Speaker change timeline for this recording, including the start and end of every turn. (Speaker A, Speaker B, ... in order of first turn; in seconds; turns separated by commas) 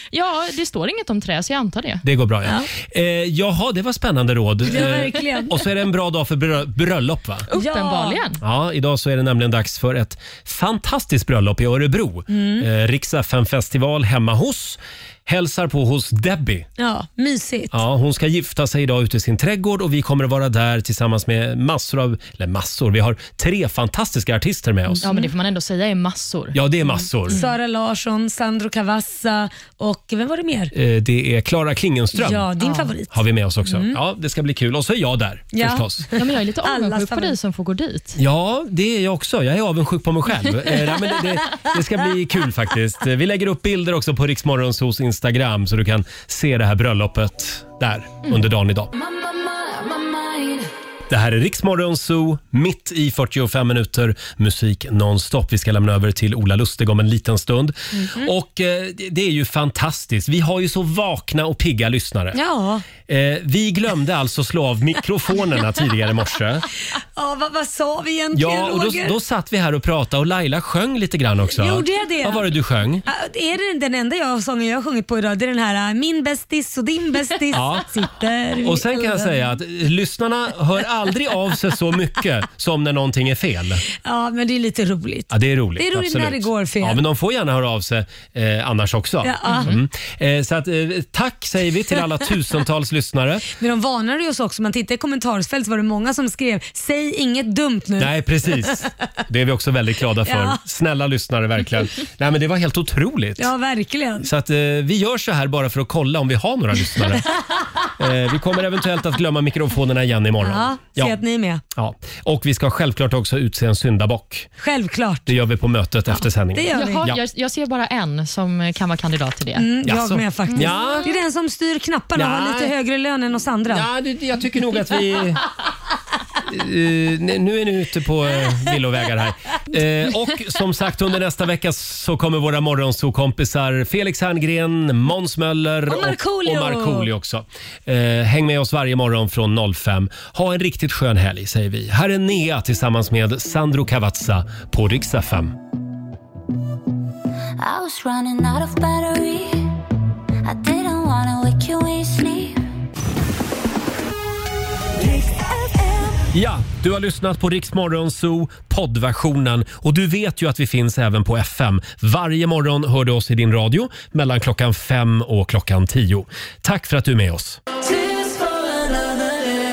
Speaker A: 0.1-2.0, Speaker B: 2.0-7.5, Speaker C: 4.7-5.6, Speaker A: 7.5-8.4, Speaker C: 7.5-8.2, Speaker B: 8.4-16.7, Speaker C: 12.3-12.7, Speaker C: 16.8-17.8, Speaker B: 17.7-25.0, Speaker C: 24.9-25.3, Speaker A: 25.0-26.6, Speaker B: 26.5-27.4, Speaker C: 27.3-30.7, Speaker B: 30.7-36.1, Speaker C: 32.1-34.0, Speaker C: 35.5-37.3, Speaker A: 36.1-38.2, Speaker B: 38.2-48.9, Speaker B: 51.1-62.4, Speaker C: 57.9-58.3, Speaker C: 62.3-62.8, Speaker B: 63.0-66.6, Speaker C: 67.2-69.2, Speaker B: 68.3-73.0, Speaker C: 71.5-72.5, Speaker C: 73.0-79.4, Speaker B: 77.5-77.9, Speaker B: 78.6-83.8, Speaker C: 84.0-87.0, Speaker B: 85.3-93.5, Speaker C: 89.2-89.7, Speaker A: 89.5-89.8, Speaker C: 93.5-98.1, Speaker B: 98.0-103.5, Speaker C: 100.2-100.6, Speaker C: 103.4-104.3, Speaker B: 104.2-107.4, Speaker B: 108.0-111.2, Speaker C: 110.4-111.6, Speaker B: 111.7-114.5, Speaker C: 114.6-115.3, Speaker B: 115.3-117.2, Speaker C: 116.1-117.0, Speaker A: 116.7-119.7, Speaker C: 119.5-123.9, Speaker B: 119.8-121.1, Speaker A: 120.5-121.0, Speaker B: 122.1-122.7, Speaker B: 123.7-125.4, Speaker B: 126.5-145.5, Speaker C: 135.9-137.1, Speaker D: 147.6-149.7, Speaker D: 150.4-152.6, Speaker D: 155.0-156.2, Speaker B: 156.3-167.6